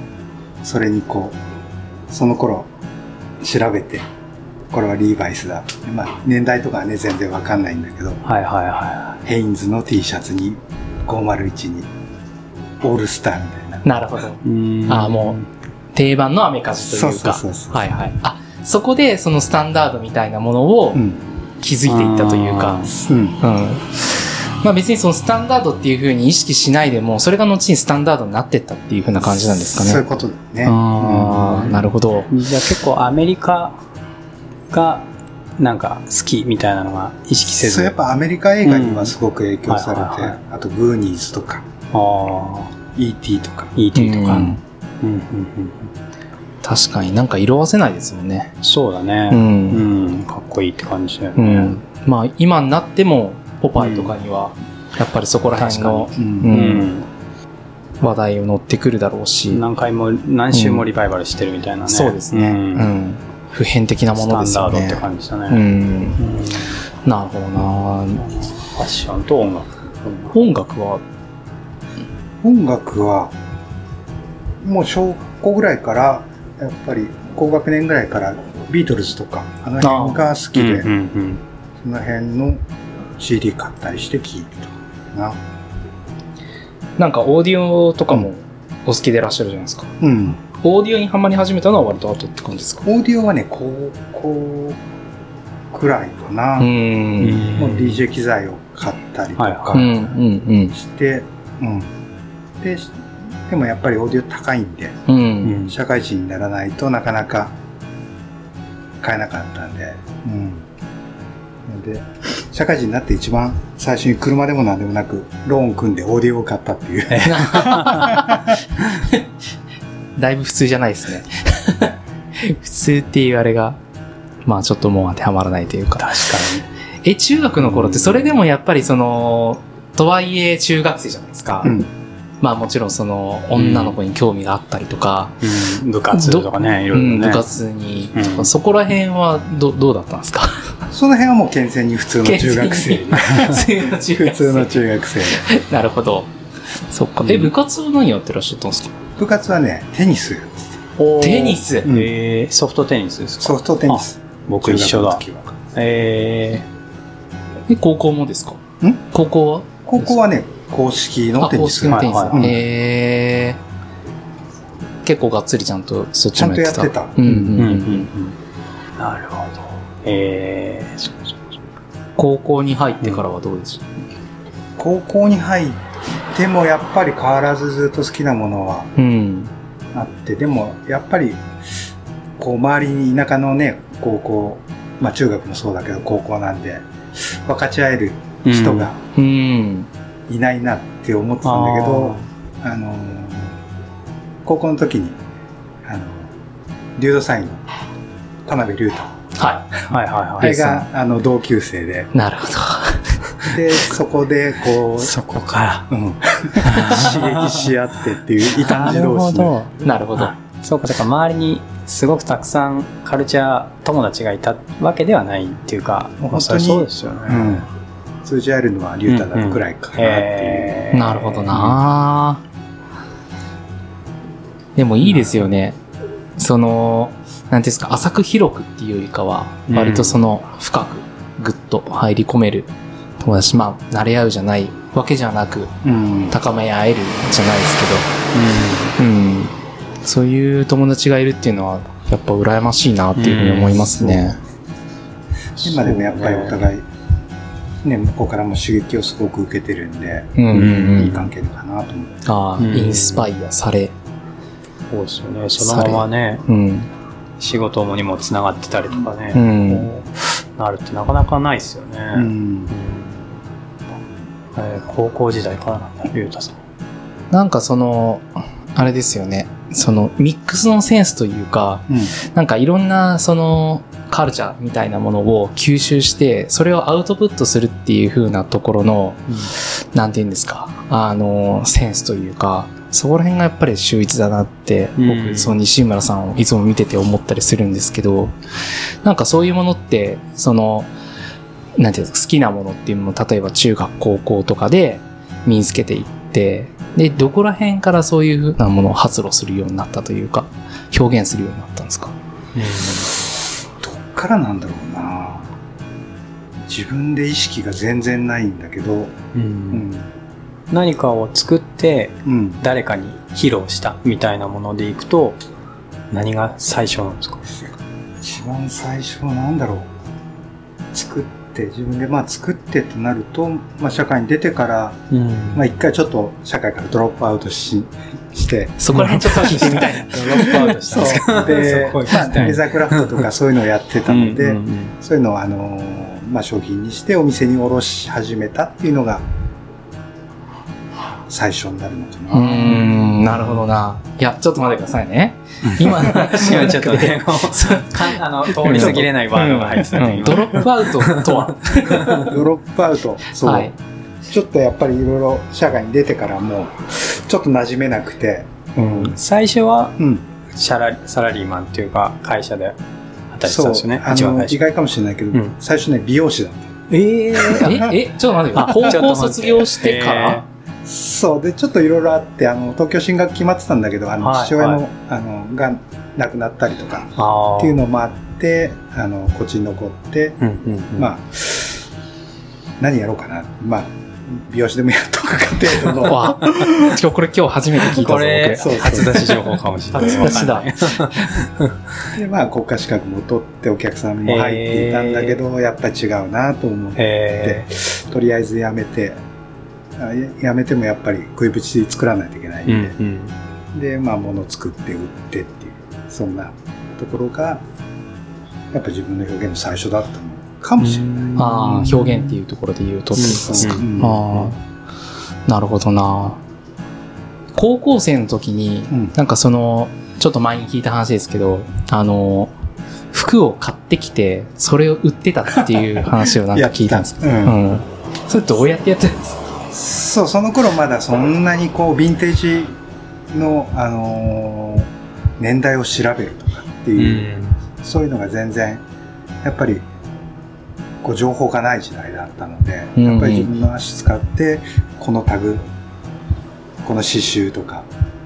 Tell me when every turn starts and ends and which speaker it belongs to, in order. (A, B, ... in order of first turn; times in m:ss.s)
0:00.6-0:01.4 A
0:02.1-0:02.7 A
0:03.4-0:04.1 A
0:04.7-0:08.2 A
0:08.2-0:09.2 B
0:09.2-0:11.9 A
0:12.8-0:13.8 A
0:13.8-0:15.4 C
0:14.4-0:15.5 B
0:15.9-0:21.0 C
0:16.8-0:17.9 A
0:20.9-0:21.2 A
0:21.6-0:30.0 C
0:21.9-0:22.9 B
0:23.0-0:23.4 A
0:29.6-0:31.3 A
0:30.6-0:32.3 C
0:30.8-0:33.8 B
0:34.7-0:35.1 B
0:35.6-0:38.0 B
0:37.5-0:41.6 A
0:38.6-0:39.1 B
0:39.7-0:40.4 B
0:41.9-0:42.7 B
0:42.9-0:43.8 A
0:43.8-0:45.9 B
0:43.9-0:44.6 C
0:46.6-0:48.5 C
0:48.6-0:51.8 B
0:49.3-0:49.8 C
0:51.4-0:56.9 C
0:53.8-0:54.1 B
0:55.6-0:57.1 B
0:56.2-0:56.6 A
0:58.0-0:59.6 C
0:59.5-1:02.9 B
1:00.5-1:00.9 C
1:01.9-1:06.2 C
1:04.2-1:05.6 B
1:06.2-1:06.8 B
1:07.0-1:08.2 C
1:08.2-1:10.4 B
1:10.3-1:11.0 C
1:12.4-1:13.3 A
1:14.6-1:20.9 A
1:19.8-1:20.3 C
1:20.5-1:21.4 B
1:21.8-1:22.6 A
1:23.2-1:25.4 A
1:27.0-1:29.9 C
1:30.0-1:30.4 A
1:30.5-1:32.8 C
1:32.8-1:34.8 A
1:35.7-1:36.7 A
1:36.6-1:37.5 C
1:37.2-1:38.0 B
1:37.6-1:40.1 A
1:39.4-1:39.9 B
1:39.7-1:40.7 C
1:40.7-1:41.9 A
1:42.6-1:45.0 A
1:45.1-1:45.6 C
1:45.4-1:45.8 B
1:45.7-1:47.6 A
1:49.0-1:50.6 A
1:51.7-1:58.3 A
1:57.1-1:58.3 B
1:57.2-1:58.4 C
2:00.2-2:03.8 C
2:04.4-2:06.3 C
2:06.0-2:06.6 B
2:07.0-2:11.8 C
2:07.6-2:08.4 B
2:11.6-2:11.9 A
2:12.4-2:15.4 C
2:13.6-2:14.0 B
2:15.4-2:17.4 B
2:16.1-2:20.7 C
2:18.2-2:18.5 B
2:20.9-2:25.4 A
2:22.2-2:26.3 C
2:26.9-2:28.9 C
2:27.2-2:27.5 B
2:29.2-2:30.6 A
2:31.0-2:35.2 B
2:31.2-2:31.9 C
2:31.8-2:32.1 A
2:33.4-2:35.6 A
2:35.7-2:36.6 B
2:37.7-2:38.6 C
2:39.1-2:40.2 C
2:39.9-2:42.6 A
2:41.4-2:43.6 C
2:41.9-2:42.5 B
2:45.0-2:48.1 C
2:46.4-2:47.3 A
2:47.2-2:48.3 B
2:49.0-2:51.4 B
2:52.2-2:53.8 C
2:54.8-2:55.8 A
2:56.3-2:58.9 A
2:59.0-2:59.5 C
2:59.9-3:01.4 A
3:02.4-3:09.0 A
3:08.4-3:08.9 B
3:09.2-3:09.9 C
3:10.3-3:13.6 A
3:11.4-3:12.3 B
3:14.4-3:15.2 A
3:15.8-3:16.3 A
3:17.0-3:17.6 A
3:18.4-3:19.1 A
3:19.4-3:19.8 C
3:19.9-3:20.6 B
3:20.4-3:20.9 C
3:20.4-3:22.1 A
3:22.1-3:23.2 C
3:23.5-3:25.1 A
3:24.9-3:25.9 B
3:25.9-3:29.6 A
3:26.6-3:27.7 B
3:28.6-3:29.0 B
3:28.7-3:30.3 C
3:30.2-3:37.7 B
3:36.2-3:37.7 A
3:38.2-3:40.8 A
3:39.1-3:41.8 B
3:40.9-3:42.4 C
3:44.8-3:45.8 C
3:45.0-3:45.3 B
3:46.4-3:52.7 C
3:49.7-3:50.2 B
3:53.2-3:55.7 C
3:55.8-3:56.4 A
3:56.3-3:58.1 C
3:58.3-3:59.0 B
3:59.0-4:04.4 C
4:03.2-4:04.1 B
4:05.6-4:06.7 B
4:05.6-4:06.8 A
4:07.8-4:12.2 A
4:10.4-4:11.3 C
4:10.5-4:11.2 B
4:12.2-4:13.9 C
4:12.6-4:13.3 B
4:14.9-4:16.4 B
4:15.6-4:16.9 C
4:17.4-4:23.3 B
4:19.3-4:19.9 C
4:22.1-4:22.7 A
4:24.6-4:26.6 B
4:27.3-4:48.3 C
4:45.0-4:45.6 B
4:49.0-4:50.9 C
4:51.8-5:02.1 C
5:02.6-5:03.1 B
5:03.8-5:05.5 A
5:06.6-5:09.2 A
5:09.3-5:09.9 B
5:09.7-5:10.1 A
5:10.7-5:15.4 B
5:12.2-5:12.6 A
5:16.1-5:17.4 B
5:18.2-5:19.9 A
5:20.9-5:25.0 A
5:25.1-5:25.7 B
5:25.5-5:28.8 A
5:28.8-5:31.0 C
5:28.9-5:33.3 B
5:30.8-5:39.2 A
5:34.1-5:34.9 B
5:41.3-5:42.8 A
5:42.3-5:52.3 C
5:42.7-5:43.6 B
5:45.9-5:52.3 B
5:52.2-5:53.7 A
5:53.4-5:53.7 C
5:54.3-5:59.1 A
5:58.8-6:00.0 B
6:00.0-6:00.2 A
6:00.5-6:02.8 B
6:03.3-6:04.6 B
6:03.4-6:06.8 A
6:06.9-6:08.0 B
6:07.5-6:10.4 C
6:07.6-6:07.9 A
6:08.5-6:10.4 B
6:10.8-6:20.4 A
6:14.2-6:14.8 B
6:17.2-6:17.8 B
6:20.4-6:21.1 B
6:21.0-6:21.8 A
6:22.8-6:26.8 A
6:26.0-6:29.4 C
6:27.8-6:31.8 B
6:28.6-6:29.3 A
6:29.9-6:31.3 C
6:32.1-6:39.2 A
6:34.2-6:35.4 B
6:37.0-6:37.7 B
6:40.0-6:43.0 A
6:42.7-6:43.3 B
6:43.7-6:47.6 A
6:48.7-6:51.6 A
6:50.8-6:52.3 B
6:51.4-6:54.6 C
6:53.2-6:54.5 B
6:53.4-6:54.2 A
6:55.5-6:56.4 C
6:57.6-7:02.5 C
7:03.1-7:09.4 C
7:06.5-7:07.6 A
7:09.7-7:12.8 A
7:13.3-7:18.8 A
7:17.0-7:17.6 B
7:19.4-7:19.8 A
7:21.0-7:25.6 A
7:23.0-7:23.5 C
7:26.8-7:27.9 A